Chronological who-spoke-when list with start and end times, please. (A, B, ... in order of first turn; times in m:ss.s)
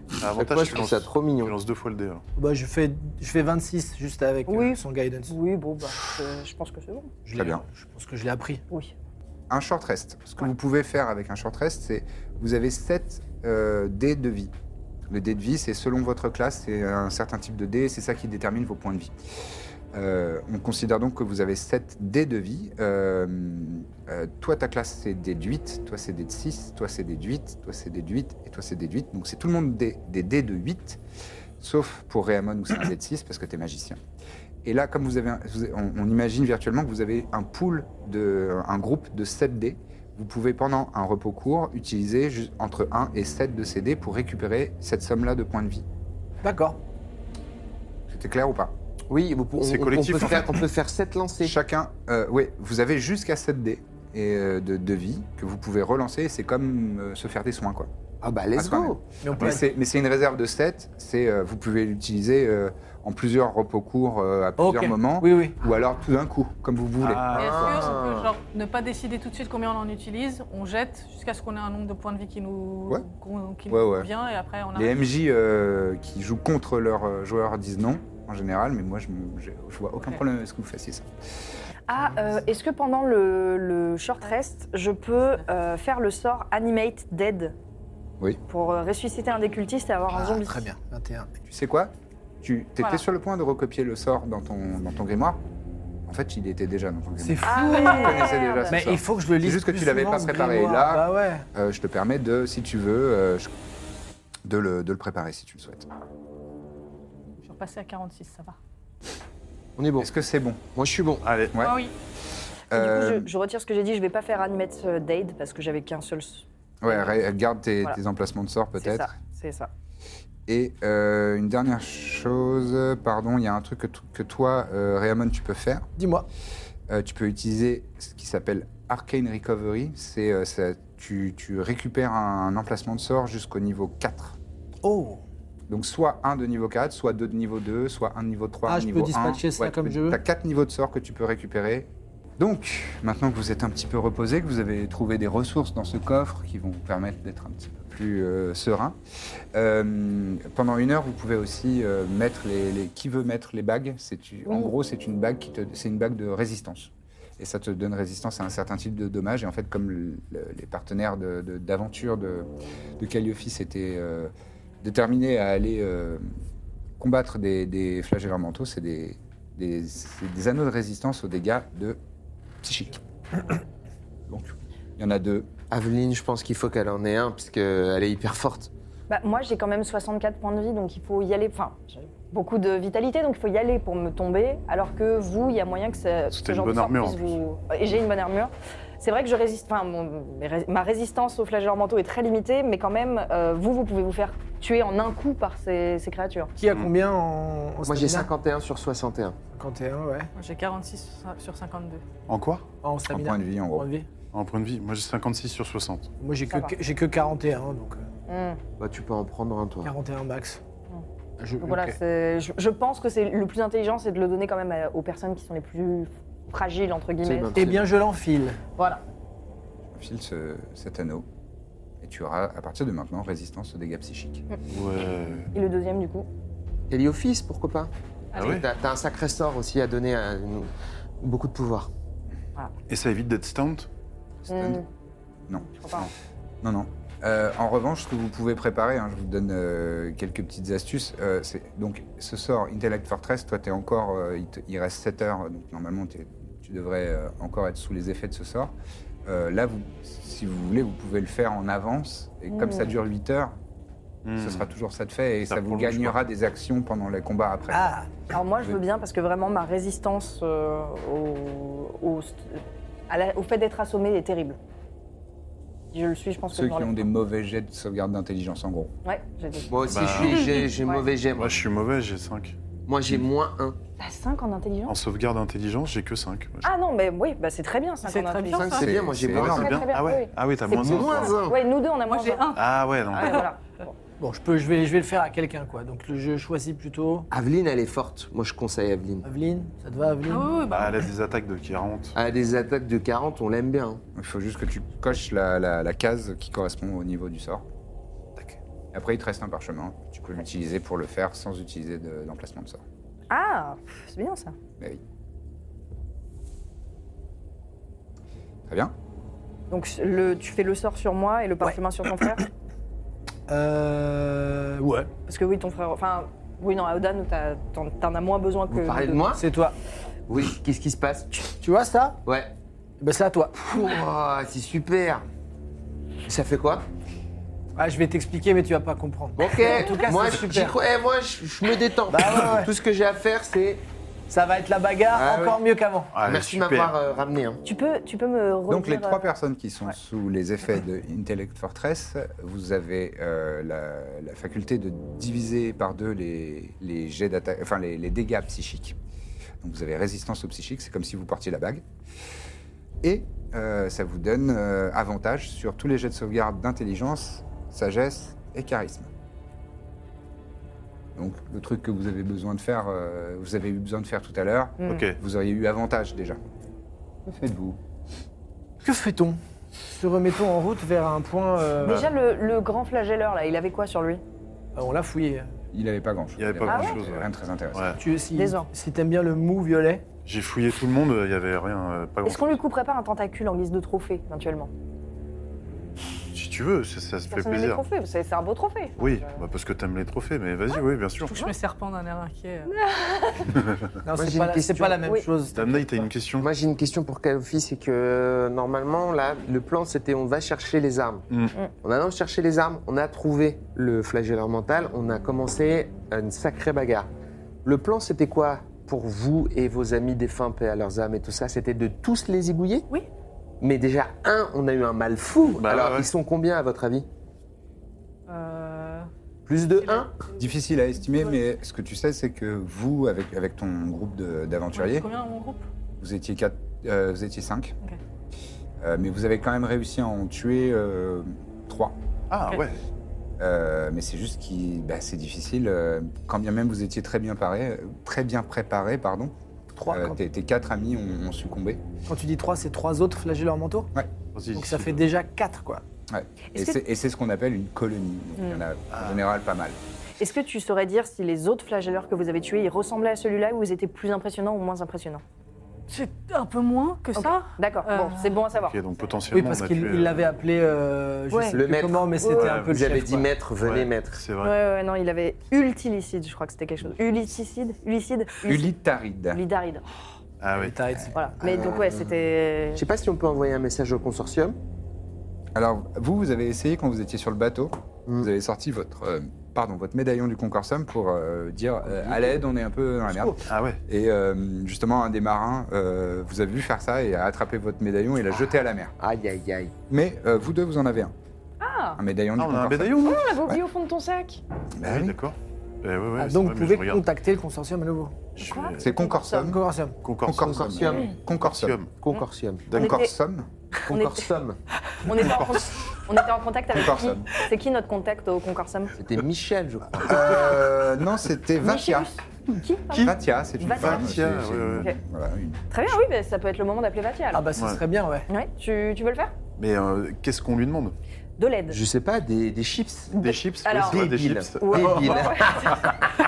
0:00.2-0:02.2 A
0:00.4-0:01.5 B
0:02.4-0:05.3 C
0:04.5-0:07.1 D
0:07.2-0:08.6 C
0:07.3-0:07.6 E
0:09.5-0:14.5 E
0:15.1-0:19.1 E
0:19.9-0:31.0 E
0:31.6-0:34.0 E
0:34.6-0:45.8 E
0:46.4-0:46.8 C
0:48.1-0:48.7 E
0:49.1-0:51.6 B
0:49.6-0:50.6 A
0:51.4-0:57.9 E
0:58.2-0:59.0 B
0:58.5-1:07.5 E
0:59.2-0:59.6 C
1:04.6-1:05.6 C
1:07.0-1:07.9 A
1:07.3-1:08.3 B
1:07.3-1:15.0 F
1:13.7-1:14.1 E
1:14.7-1:21.1 E
1:21.9-1:27.6 D
1:22.0-1:22.4 C
1:28.5-1:30.6 D
1:30.1-1:31.3 C
1:31.5-1:35.4 E
1:36.1-1:43.5 E
1:37.2-1:38.2 C
1:37.4-1:38.9 D
1:37.6-1:38.3 F
1:38.7-1:41.4 C
1:44.4-1:45.9 E
1:47.4-1:48.6 F
1:49.8-1:50.1 B
1:50.0-1:50.6 E
1:50.7-1:51.2 B
1:51.2-1:51.6 A
1:51.5-1:51.8 E
1:51.6-1:51.9 F
1:52.7-1:53.3 E
1:52.7-1:57.2 D
1:56.8-1:59.1 E
1:58.8-1:59.7 D
2:00.5-2:05.9 E
2:06.0-2:06.2 C
2:06.9-2:14.4 E
2:14.8-2:15.2 C
2:15.7-2:29.0 E
2:18.6-2:20.2 C
2:29.5-2:42.5 E
2:34.4-2:34.7 D
2:43.0-2:44.3 E
2:44.8-2:46.2 E
2:47.0-2:52.0 E
2:52.6-2:53.6 E
2:54.3-2:55.5 E
2:55.7-2:58.7 B
2:59.1-3:16.5 D
3:06.3-3:07.4 A
3:16.6-3:18.3 C
3:17.8-3:19.4 B
3:19.5-3:20.3 C
3:20.3-3:22.0 F
3:22.3-3:22.7 A
3:22.8-3:24.1 C
3:23.1-3:23.9 E
3:24.3-3:26.1 A
3:26.2-3:28.0 C
3:26.5-3:26.7 D
3:28.3-3:28.6 D
3:28.8-3:29.9 B
3:29.8-3:30.6 C
3:31.4-3:32.0 C
3:31.6-3:37.6 D
3:37.2-3:37.9 B
3:37.5-3:38.6 C
3:39.9-3:41.3 E
3:42.0-3:44.4 E
3:44.7-3:45.5 A
3:45.5-3:46.3 D
3:46.9-3:51.9 B
3:48.3-3:48.6 A
3:52.9-3:53.9 A
3:54.4-3:54.8 E
3:54.5-3:54.8 D
3:55.5-3:56.0 E
3:55.6-3:56.1 D
3:56.6-4:08.7 E
4:09.2-4:13.5 E
4:12.5-4:12.9 D
4:14.2-4:14.7 A
4:14.4-4:17.9 E
4:15.5-4:16.2 A
4:17.7-4:18.1 C
4:18.3-4:24.6 D
4:25.9-4:27.1 D
4:26.5-4:28.9 E
4:29.0-4:29.7 D
4:29.7-4:31.6 B
4:29.8-4:30.6 A
4:30.7-4:31.0 D
4:31.4-4:32.6 A
4:32.8-4:33.8 B
4:34.0-4:34.9 D
4:34.9-4:36.7 A
4:36.6-4:42.5 D
4:38.0-4:39.0 F
4:38.5-4:39.7 B
4:38.8-4:39.8 E
4:39.3-4:41.4 A
4:40.7-4:41.6 B
4:42.0-4:42.6 F
4:42.5-4:43.4 A
4:43.1-4:43.9 D
4:43.2-4:43.4 F
4:44.2-4:47.3 C
4:47.3-4:49.3 B
4:49.2-4:50.6 C
4:50.3-4:51.0 F
4:50.7-4:52.2 A
4:52.1-4:54.0 B
4:54.1-4:57.6 E
4:58.9-5:02.8 E
5:03.3-5:04.5 D
5:08.7-5:08.9 E
5:09.7-5:12.4 D
5:11.6-5:12.4 C
5:13.5-5:15.1 C
5:15.3-5:19.2 D
5:18.7-5:19.4 B
5:19.3-5:19.7 C
5:20.3-5:21.5 B
5:21.5-5:22.2 C
5:22.2-5:22.5 B
5:23.0-5:23.8 C
5:23.6-5:25.2 B
5:26.2-5:26.8 B
5:27.8-5:30.8 C
5:29.4-5:33.8 B
5:29.6-5:30.1 D
5:32.1-5:32.7 C
5:34.3-5:36.1 C
5:35.1-5:35.6 B
5:36.1-5:36.9 A
5:36.2-5:37.6 B
5:37.6-5:39.2 D
5:38.7-5:49.0 E
5:49.6-5:51.8 E
5:53.0-5:59.1 E
6:01.1-6:06.4 E
6:04.8-6:05.1 D
6:04.8-6:05.2 A
6:07.2-6:07.8 E
6:08.8-6:12.1 C
6:11.8-6:14.2 D
6:14.7-6:15.5 C
6:15.7-6:18.0 E
6:16.4-6:18.0 A
6:16.6-6:17.0 D
6:18.0-6:20.0 C
6:18.3-6:18.7 D
6:20.2-6:22.6 A
6:22.2-6:24.7 D
6:26.3-6:27.8 A
6:27.3-6:29.4 D
6:29.0-6:31.3 A
6:31.2-6:32.7 F
6:32.7-6:33.6 D
6:34.0-6:36.1 C
6:34.1-6:35.1 B
6:35.5-6:36.5 A
6:36.4-6:41.2 B
6:41.3-6:41.5 A
6:41.8-6:47.1 B
6:47.6-6:52.9 B
6:53.6-6:57.1 B
6:55.5-6:56.1 A
6:58.3-6:59.1 F
6:59.4-7:00.1 B
6:59.8-7:00.1 F
7:00.4-7:05.1 E
7:01.0-7:01.3 F
7:04.7-7:05.6 F
7:06.0-7:07.8 E
7:08.8-7:12.0 E
7:12.3-7:12.8 A
7:13.4-7:19.3 E
7:19.8-7:20.2 C
7:19.9-7:21.8 E
7:22.1-7:23.9 C
7:24.3-7:25.1 A
7:24.5-7:25.8 C
7:26.1-7:29.8 E
7:28.4-7:28.6 D
7:28.9-7:29.2 A
7:30.2-7:35.2 D
7:35.9-7:38.4 F
7:37.2-7:38.8 D
7:38.5-7:40.3 A
7:39.3-7:43.3 C
7:41.3-7:41.6 D
7:41.5-7:44.2 B
7:42.2-7:42.5 D
7:42.3-7:42.8 A
7:43.6-7:44.5 A
7:44.4-7:48.7 D
7:48.4-7:49.4 E
7:49.3-7:50.0 D
7:50.4-7:50.8 A
7:50.5-7:51.4 C
7:51.1-7:52.8 D
7:51.4-7:52.2 B
7:52.7-7:54.6 B
7:55.5-8:08.9 E
8:01.9-8:02.4 B
8:03.4-8:03.8 A
8:09.0-8:09.7 B
8:09.9-8:11.1 E
8:11.6-8:12.0 D
8:12.0-8:13.6 E
8:12.4-8:13.3 A
8:13.0-8:14.4 D
8:14.8-8:15.2 E
8:14.8-8:17.0 A
8:16.2-8:18.2 C
8:18.4-8:18.9 A
8:18.4-8:19.5 D
8:18.8-8:19.6 E
8:19.3-8:19.9 C
8:20.0-8:21.9 A
8:20.2-8:21.8 E
8:20.3-8:21.1 B
8:22.0-8:22.7 B
8:22.1-8:23.1 D
8:22.7-8:23.0 A
8:22.7-8:23.5 E
8:23.8-8:24.3 D
8:23.9-8:24.6 B
8:25.0-8:28.9 D
8:25.1-8:25.6 A
8:26.7-8:27.3 E
8:29.0-8:30.4 B
8:30.0-8:32.1 E
8:31.6-8:34.1 D
8:32.9-8:36.0 E
8:33.6-8:34.9 A
8:35.7-8:37.4 D
8:37.3-8:38.3 C
8:37.6-8:37.8 A
8:38.3-8:39.3 D
8:39.6-8:41.0 A
8:41.4-8:41.8 D
8:41.7-8:43.1 B
8:43.1-8:46.1 D
8:43.2-8:45.8 A
8:43.8-8:45.9 B